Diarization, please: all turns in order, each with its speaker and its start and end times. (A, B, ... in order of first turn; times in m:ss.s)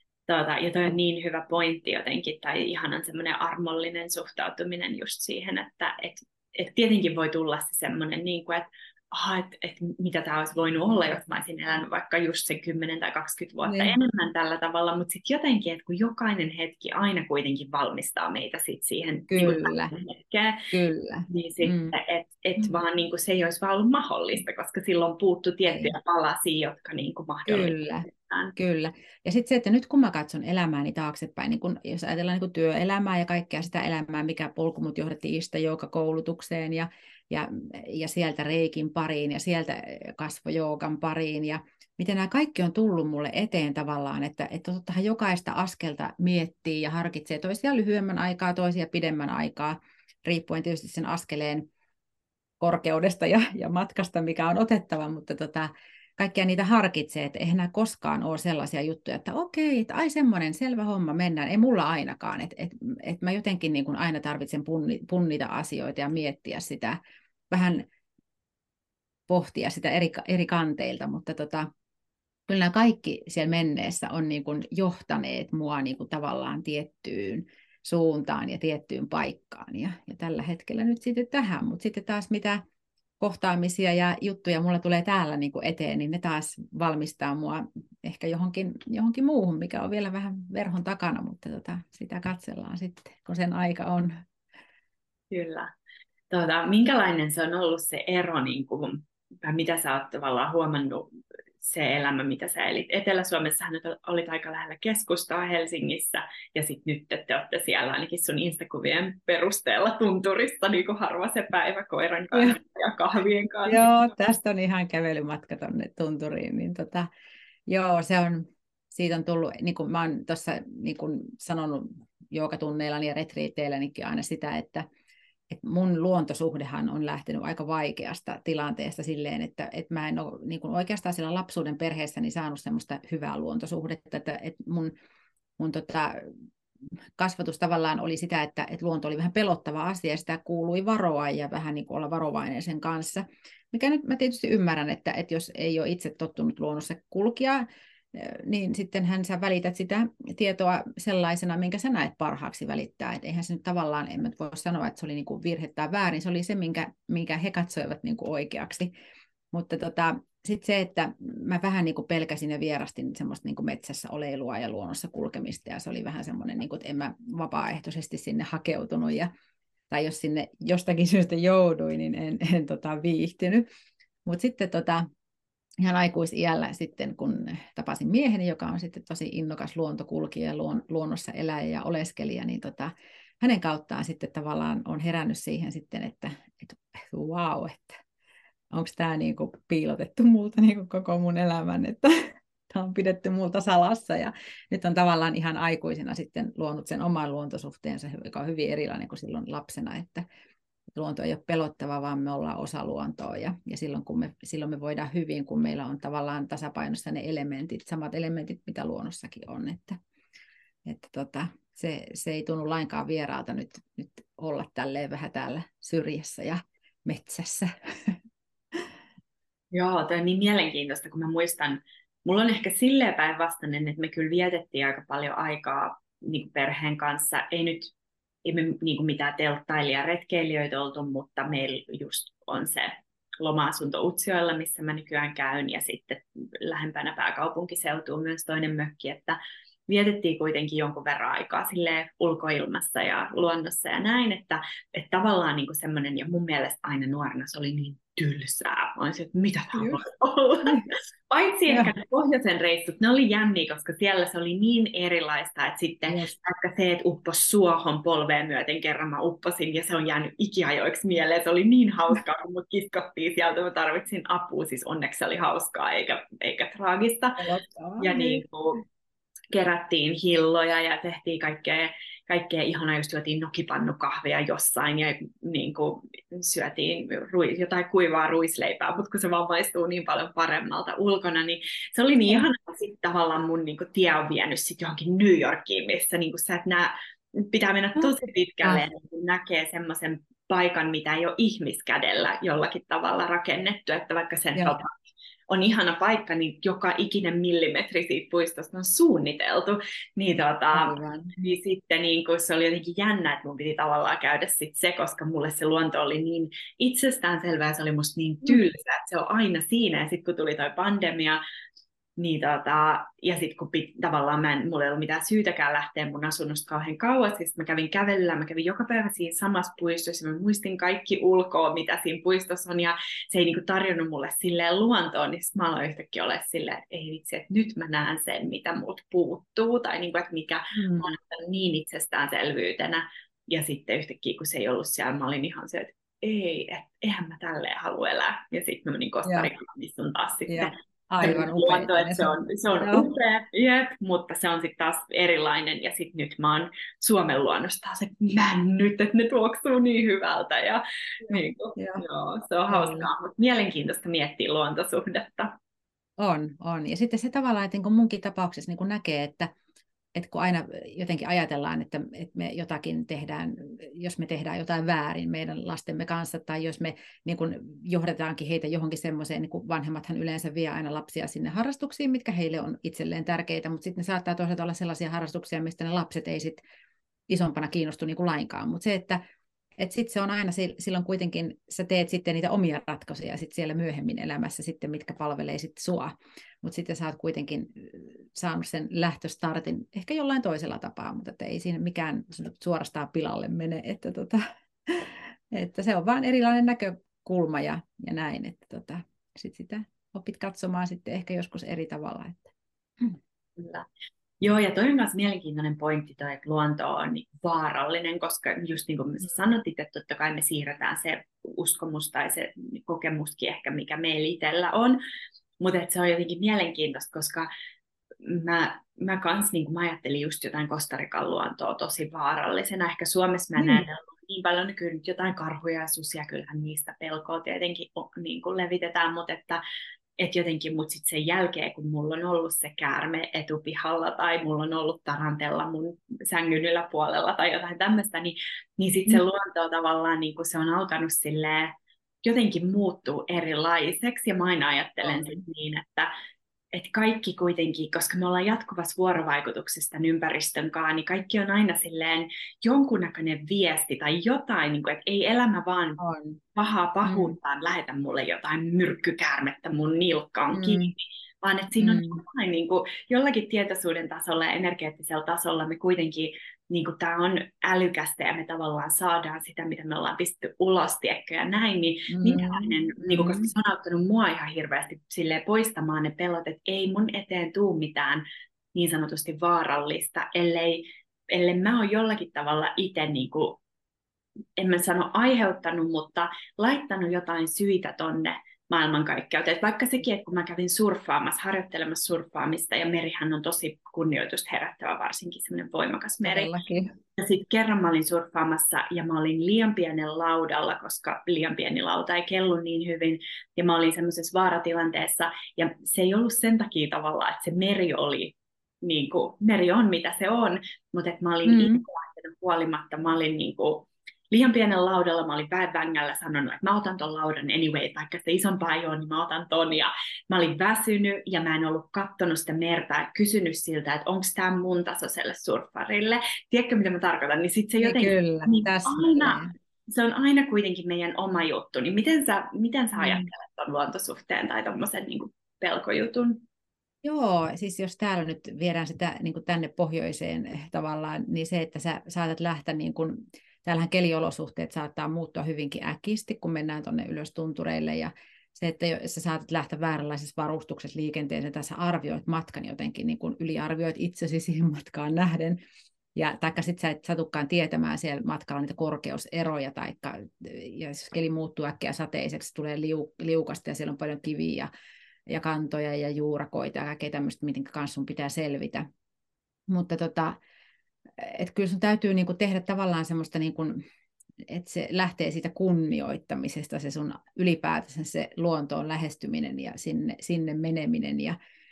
0:00.3-0:20.7 A
0:13.6-0:14.0 B
0:19.3-0:19.9 B
0:20.7-0:21.9 B
0:21.3-0:28.5 A
0:25.7-0:25.9 B
0:27.4-0:51.7 B
0:52.6-1:07.0 B
1:07.5-1:07.9 B
1:09.3-1:11.7 B
1:12.5-1:22.6 B
1:23.2-1:34.2 B
1:35.3-1:35.7 A
1:36.3-1:41.1 A
1:41.6-1:53.9 A
1:53.6-1:57.1 B
1:57.7-2:04.9 B
2:05.5-2:14.9 B
2:15.6-2:16.3 B
2:17.2-2:38.9 B
2:39.5-2:49.3 B
2:49.9-2:53.6 B
2:54.2-2:55.0 B
2:55.8-3:08.0 B
3:08.7-3:20.2 B
3:20.9-3:30.0 B
3:30.8-3:38.2 B
3:39.7-3:47.9 A
3:48.4-4:27.4 A
4:11.7-4:11.9 B
4:16.1-4:16.3 B
4:27.4-4:28.4 B
4:28.0-4:28.8 A
4:29.5-4:54.9 A
4:48.0-4:48.8 B
4:54.6-4:54.8 B
4:55.5-5:11.4 A
5:00.7-5:01.3 B
5:12.2-5:55.5 A
5:30.7-5:31.2 B
5:39.2-5:39.5 B
5:40.5-5:43.1 B
5:51.3-5:52.0 B
5:52.7-5:53.1 B
5:56.2-5:59.5 B
6:00.1-6:16.6 B
6:17.3-6:19.2 B
6:19.8-6:43.2 B
6:43.6-6:43.8 A
6:44.4-6:55.0 A
6:55.6-6:57.5 A
6:58.2-7:09.6 A
7:03.6-7:03.8 B
7:10.2-7:26.1 A
7:25.0-7:25.4 B
7:26.7-7:36.0 A
7:36.0-7:36.4 B
7:36.5-8:03.6 A
7:37.0-7:37.4 B
7:40.5-7:40.9 B
7:41.8-7:42.2 B
7:52.1-7:53.5 B
8:04.6-8:16.5 A
8:16.2-8:16.9 B
8:17.2-8:56.4 A
8:31.4-8:31.8 B
8:47.8-8:49.5 B
8:53.0-8:53.3 B
8:57.0-9:15.6 B
9:16.1-9:24.7 B
9:25.3-9:28.8 B
9:29.7-9:30.4 B
9:31.2-9:33.8 B
9:34.4-9:41.4 B